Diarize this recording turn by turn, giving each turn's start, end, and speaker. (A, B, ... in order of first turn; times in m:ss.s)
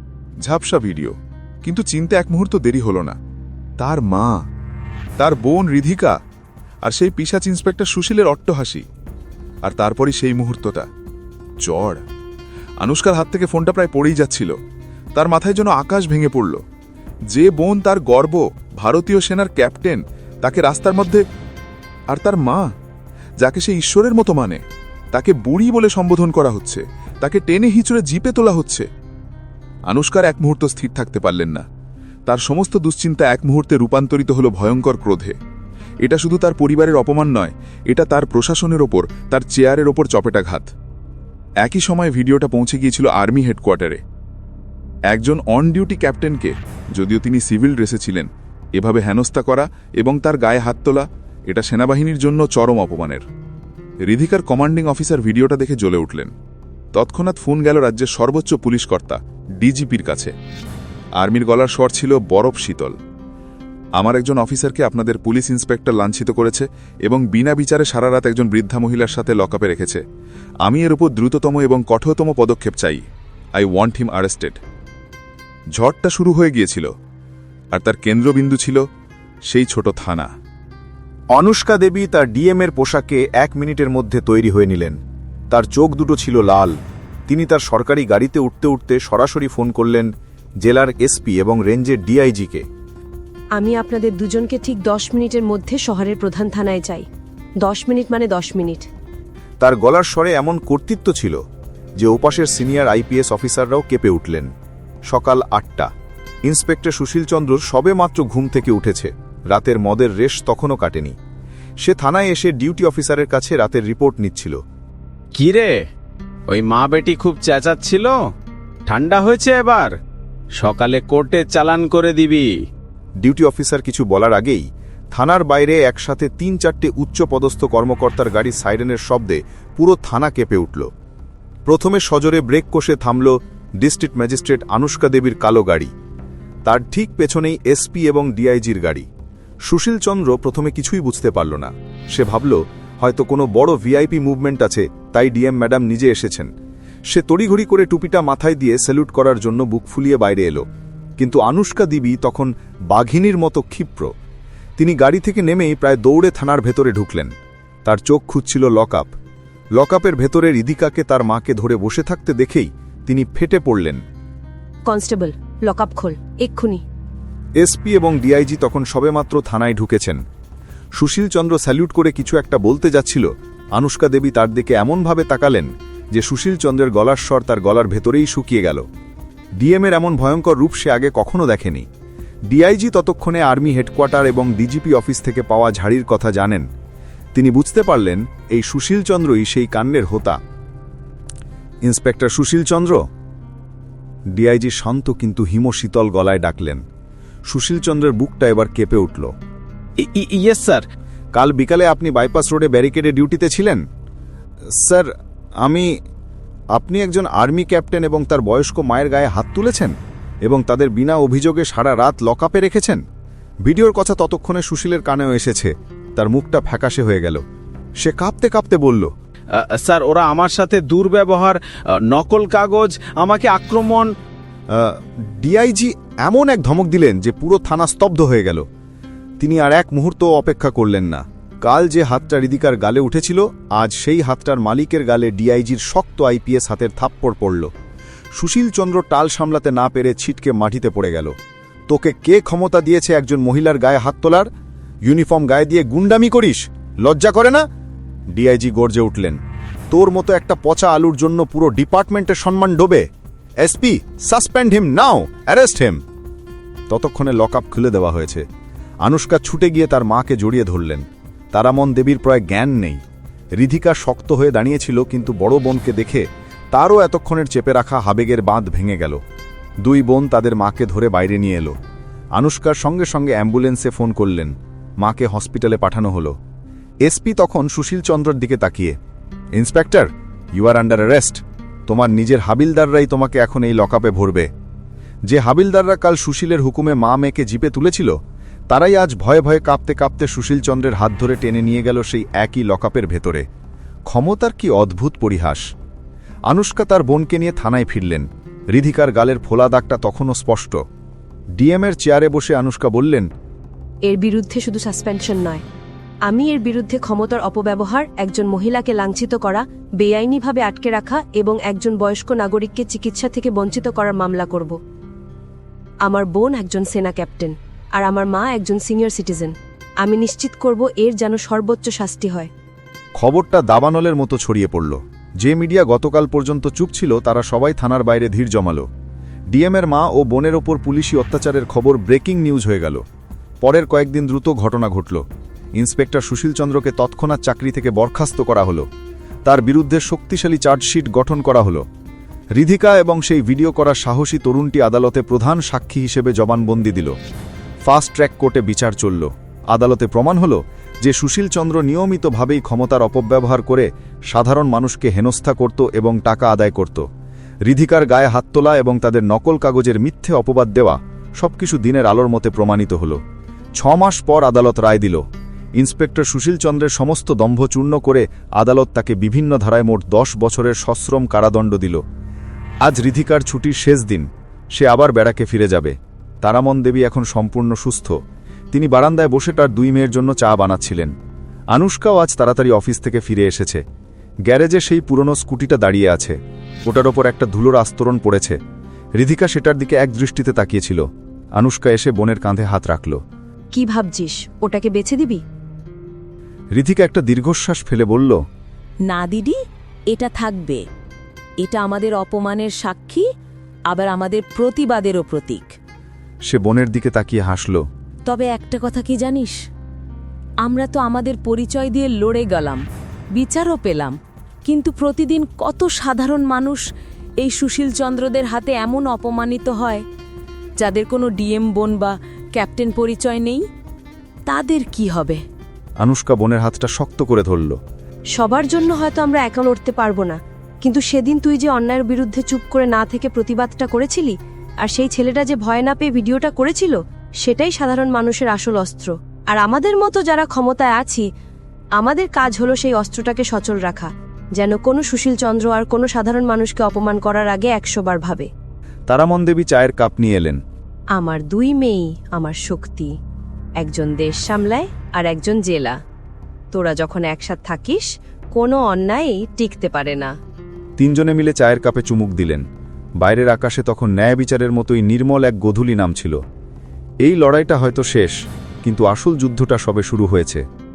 0:00.4-0:03.1 A
0:03.8-0:04.4 A
0:05.2-0:06.1 A
0:06.8-0:08.8 A
0:09.6-0:10.8 A
0:11.6-0:12.0 A
0:12.8-0:14.5 A
0:15.2-0:16.6 A
0:17.3-0:21.2 A
0:22.1-0:22.6 A
0:23.4-0:24.6 A
0:25.1-0:28.8 A
0:29.9-0:31.6 A
0:32.3-0:35.3 A
0:36.0-0:40.7 A
0:41.6-0:44.0 A
0:45.1-0:53.2 A
0:54.0-0:56.3 A
0:56.9-1:00.3 A
1:01.2-1:03.0 A
1:04.0-1:10.0 A
1:10.6-1:13.0 A
1:13.6-1:14.6 A
1:15.7-1:16.9 A
1:17.7-1:18.8 A
1:19.5-1:20.3 A
1:21.3-1:25.0 B
1:25.5-1:26.8 B
1:27.3-1:30.1 B
1:30.6-1:32.6 B
1:33.6-1:37.0 C
1:37.6-1:38.8 C
1:39.6-1:41.4 B
1:42.0-1:44.5 B
1:45.1-1:45.9 B
1:46.4-1:51.1 B
1:51.8-1:54.6 B
1:55.3-1:55.8 D
1:56.5-1:58.2 D
1:58.9-1:59.9 D
2:00.5-2:02.5 D
2:03.2-2:10.9 B
2:11.6-2:15.9 B
2:16.6-2:19.1 B
2:19.6-2:26.5 B
2:27.1-2:30.6 B
2:31.2-2:34.1 B
2:34.8-2:37.3 B
2:37.8-2:39.1 B
2:39.8-2:44.0 B
2:44.8-2:46.8 C
2:47.6-2:50.2 B
2:51.0-2:58.8 B
2:59.6-3:01.8 B
3:02.5-3:06.6 B
3:07.3-3:10.4 B
3:11.8-3:13.0 B
3:14.3-3:16.8 B
3:17.5-3:19.3 B
3:20.0-3:20.8 D
3:21.3-3:23.8 B
3:24.7-3:25.1 B
3:25.6-3:25.9 B
3:26.8-3:29.9 B
3:30.4-3:33.0 B
3:33.6-3:37.4 B
3:38.0-3:39.1 B
3:39.5-3:44.1 D
3:44.7-3:48.6 B
3:49.4-3:57.7 B
3:58.3-4:01.3 B
4:01.9-4:04.5 B
4:05.0-4:07.6 B
4:08.3-4:09.4 B
4:09.9-4:13.1 B
4:13.6-4:16.0 B
4:16.9-4:18.4 B
4:19.0-4:23.0 B
4:23.6-4:29.2 B
4:29.8-4:31.7 B
4:32.4-4:36.3 B
4:37.0-4:38.9 B
4:39.6-4:44.5 B
4:45.2-4:48.1 B
4:48.7-4:53.4 B
4:54.1-4:55.6 B
4:56.5-5:00.8 B
5:01.6-5:03.3 B
5:04.0-5:05.6 C
5:06.2-5:14.8 C
5:16.0-5:22.5 C
5:23.2-5:28.8 B
5:29.5-5:33.0 B
5:33.6-5:35.2 B
5:35.8-5:38.8 B
5:39.4-5:41.8 B
5:42.6-5:47.2 B
5:47.8-5:57.0 B
5:57.6-6:03.2 B
6:03.8-6:05.2 B
6:05.8-6:12.0 B
6:12.8-6:18.2 B
6:18.7-6:21.1 B
6:21.7-6:23.8 B
6:24.4-6:28.6 B
6:29.2-6:31.0 B
6:31.6-6:33.2 B
6:33.7-6:35.4 C
6:36.8-6:38.4 B
6:39.1-6:39.6 E
6:40.1-6:40.8 E
6:41.6-6:43.2 E
6:43.9-6:45.7 E
6:46.4-6:47.8 B
6:48.2-6:49.6 E
6:50.6-6:52.8 E
6:53.3-6:56.8 E
6:57.4-7:00.0 E
7:00.8-7:03.6 E
7:04.5-7:05.4 E
7:06.0-7:07.8 B
7:08.4-7:21.2 C
7:22.0-7:28.5 C
7:29.1-7:30.6 B
7:31.2-7:33.1 C
7:33.8-7:36.0 C
7:36.7-7:40.3 C
7:41.0-7:42.6 B
7:43.2-7:46.4 B
7:47.2-7:50.6 B